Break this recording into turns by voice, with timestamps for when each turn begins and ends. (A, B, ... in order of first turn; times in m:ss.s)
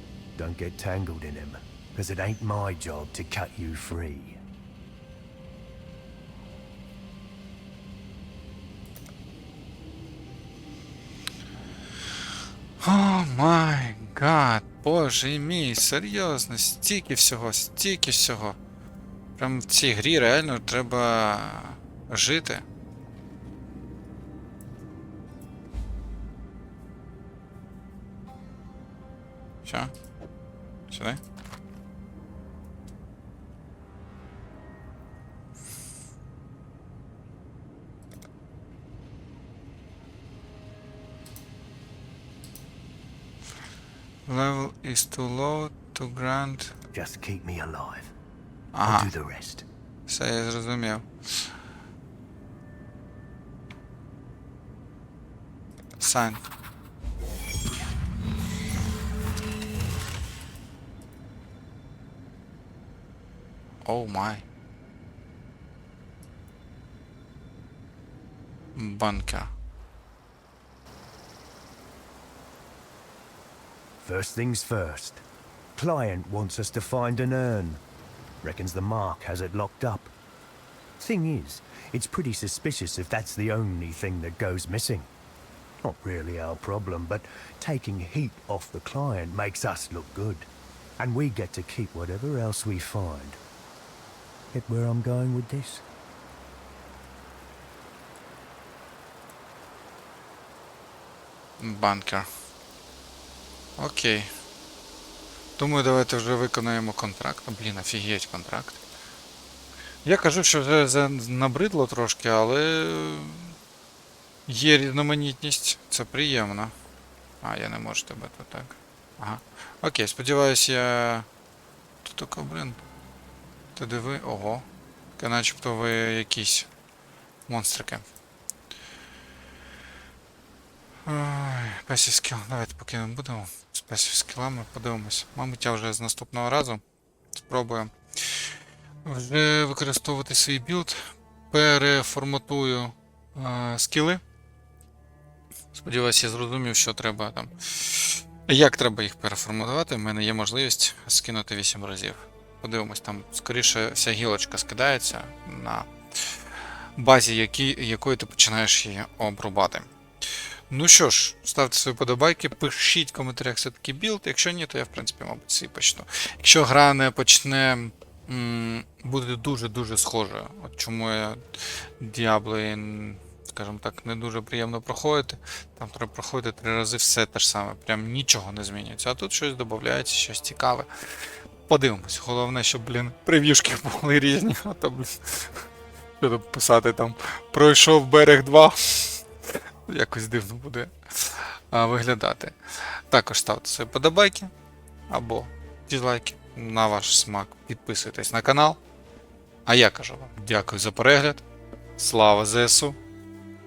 0:00.4-0:04.4 A
0:12.8-0:18.6 B
0:19.4-0:22.6 B
0:29.6-0:29.9 B
0:30.9-0:31.2 B
0:44.3-0:46.7 B
0:46.9-0:48.1 A
0:48.7-0:49.1 B
0:48.8-0:49.6 A
0:50.1-0:51.5 B
0:56.0-0:56.4 B
1:03.8-1:04.4 B
1:08.7-1:09.5 B
1:14.0-1:15.2 A
1:15.8-1:17.8 A
1:18.4-1:20.1 A
1:21.0-1:25.1 A
1:25.8-1:33.4 A
1:34.5-1:35.8 A
1:41.6-1:42.3 B
1:43.8-1:44.3 B
1:45.6-1:48.8 B
1:50.0-1:53.5 B
1:54.5-1:56.7 B
1:57.4-2:01.3 B
2:02.0-2:02.8 B
2:03.8-2:04.6 B
2:05.2-2:06.7 B
2:07.5-2:08.0 B
2:11.0-2:16.8 B
2:17.4-2:18.5 B
2:19.0-2:24.2 B
2:25.7-2:36.4 B
2:37.0-2:39.9 B
2:40.7-3:05.7 B
3:06.2-3:14.5 B
3:15.1-3:18.8 B
3:19.6-3:21.4 B
3:22.0-3:23.0 B